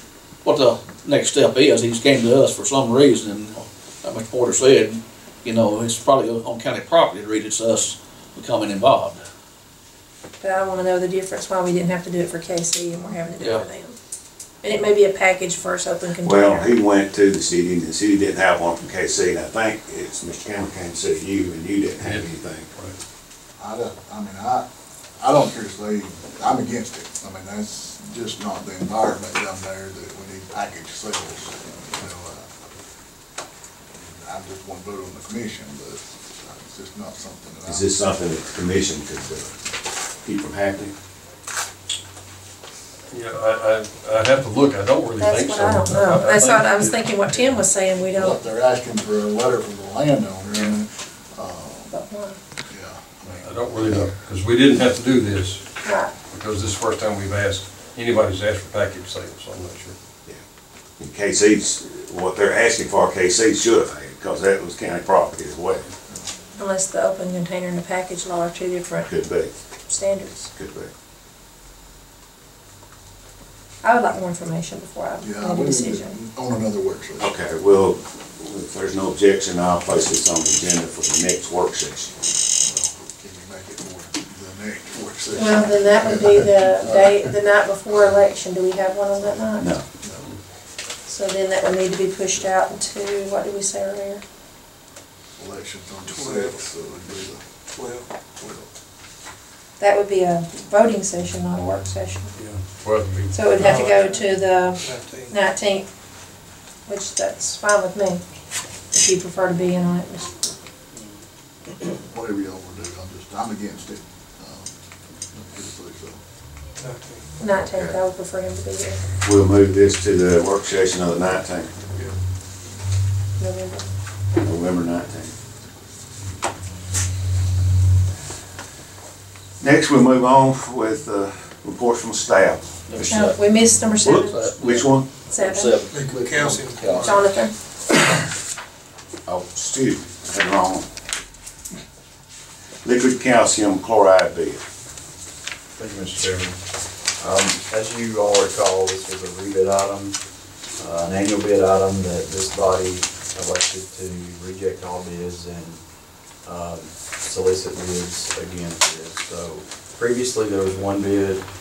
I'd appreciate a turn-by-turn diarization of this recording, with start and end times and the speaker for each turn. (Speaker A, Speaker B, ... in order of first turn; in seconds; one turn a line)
Speaker A: 0.5-9.2
Speaker B: 10.4-14.0
Speaker B: 14.6-16.7
Speaker C: 16.2-22.7
Speaker D: 22.0-23.0
Speaker E: 23.6-24.7
Speaker E: 25.2-32.5
Speaker E: 33.9-38.0
Speaker C: 37.7-39.6
Speaker C: 40.2-40.9
Speaker D: 43.1-47.4
Speaker B: 45.2-48.4
Speaker E: 48.1-51.9
Speaker B: 51.9-52.4
Speaker E: 52.7-54.0
Speaker D: 53.3-55.8
Speaker B: 55.8-56.1
Speaker D: 56.3-60.0
Speaker C: 61.0-65.8
Speaker B: 66.6-69.1
Speaker C: 69.0-69.5
Speaker B: 69.9-70.5
Speaker C: 70.5-70.9
Speaker B: 73.8-76.2
Speaker E: 75.2-77.3
Speaker C: 77.2-82.2
Speaker E: 82.6-87.3
Speaker B: 85.3-89.7
Speaker C: 89.6-89.8
Speaker B: 91.1-94.2
Speaker E: 95.4-97.4
Speaker F: 96.1-96.7
Speaker F: 97.8-98.1
Speaker E: 98.4-98.7
Speaker B: 99.8-102.3
Speaker D: 102.3-103.8
Speaker B: 103.3-105.9
Speaker F: 103.6-105.4
Speaker B: 106.9-108.2
Speaker B: 108.9-110.5
Speaker E: 111.9-114.7
Speaker E: 115.3-116.2
Speaker F: 116.8-117.2
Speaker B: 117.4-119.0
Speaker C: 117.7-118.0
Speaker C: 119.2-121.7
Speaker B: 123.4-123.9
Speaker C: 124.4-125.3
Speaker C: 129.6-133.3
Speaker A: 132.9-133.3
Speaker B: 133.1-134.4
Speaker C: 134.0-135.1
Speaker A: 134.4-134.8
Speaker B: 135.3-135.8
Speaker A: 135.4-135.7
Speaker F: 135.9-137.3
Speaker B: 137.0-137.5
Speaker C: 139.3-140.9
Speaker C: 142.8-144.6
Speaker G: 145.8-146.6
Speaker G: 147.2-150.2
Speaker G: 150.8-155.8
Speaker G: 156.4-161.4